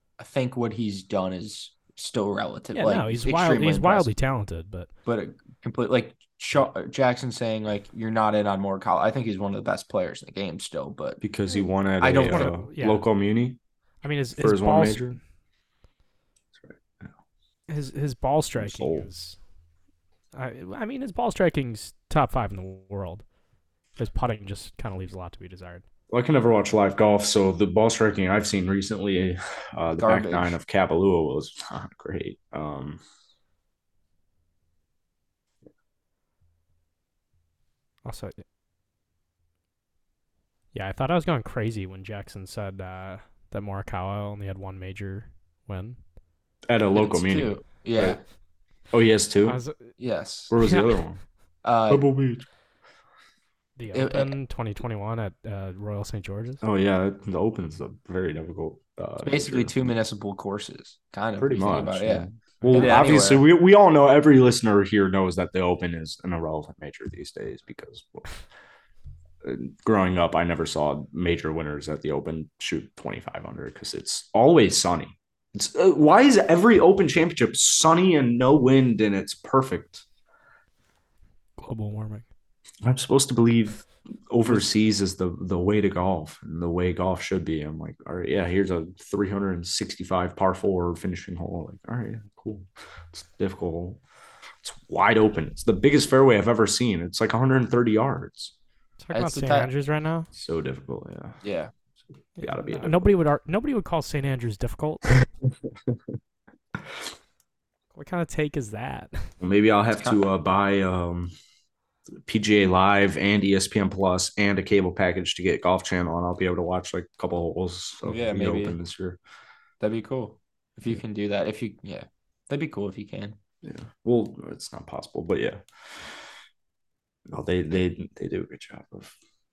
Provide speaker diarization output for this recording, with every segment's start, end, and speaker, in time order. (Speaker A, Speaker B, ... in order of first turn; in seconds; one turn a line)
Speaker A: 0.2-4.1
Speaker B: 2.7-4.9
Speaker A: 5.0-11.2
Speaker C: 11.2-13.6
Speaker A: 12.0-12.5
Speaker B: 12.1-13.1
Speaker B: 14.0-15.1
Speaker C: 14.3-15.2
Speaker C: 16.6-17.1
Speaker B: 17.7-19.4
Speaker C: 18.6-19.1
Speaker B: 20.3-23.2
Speaker B: 24.0-25.8
Speaker C: 26.1-33.0
Speaker A: 30.0-30.6
Speaker B: 38.0-38.4
Speaker B: 40.7-46.0
Speaker C: 46.7-48.2
Speaker A: 46.9-48.2
Speaker C: 48.9-49.6
Speaker B: 49.5-49.9
Speaker A: 50.0-50.5
Speaker C: 50.5-51.2
Speaker B: 50.6-51.0
Speaker A: 51.6-52.0
Speaker C: 51.9-52.5
Speaker B: 53.8-56.6
Speaker A: 53.9-54.3
Speaker C: 56.6-59.7
Speaker A: 59.2-63.4
Speaker C: 61.4-68.3
Speaker B: 62.6-62.9
Speaker C: 69.4-80.0
Speaker B: 81.6-82.2
Speaker C: 82.8-94.0
Speaker C: 94.6-98.5
Speaker B: 99.0-100.3
Speaker A: 99.1-99.7
Speaker C: 100.3-101.4
Speaker A: 101.4-101.7
Speaker C: 102.4-103.1
Speaker B: 102.4-105.1
Speaker B: 107.9-109.3
Speaker C: 109.4-111.3
Speaker C: 112.2-119.2
Speaker A: 118.0-118.8
Speaker A: 119.8-123.4
Speaker C: 123.6-126.2
Speaker C: 127.3-129.1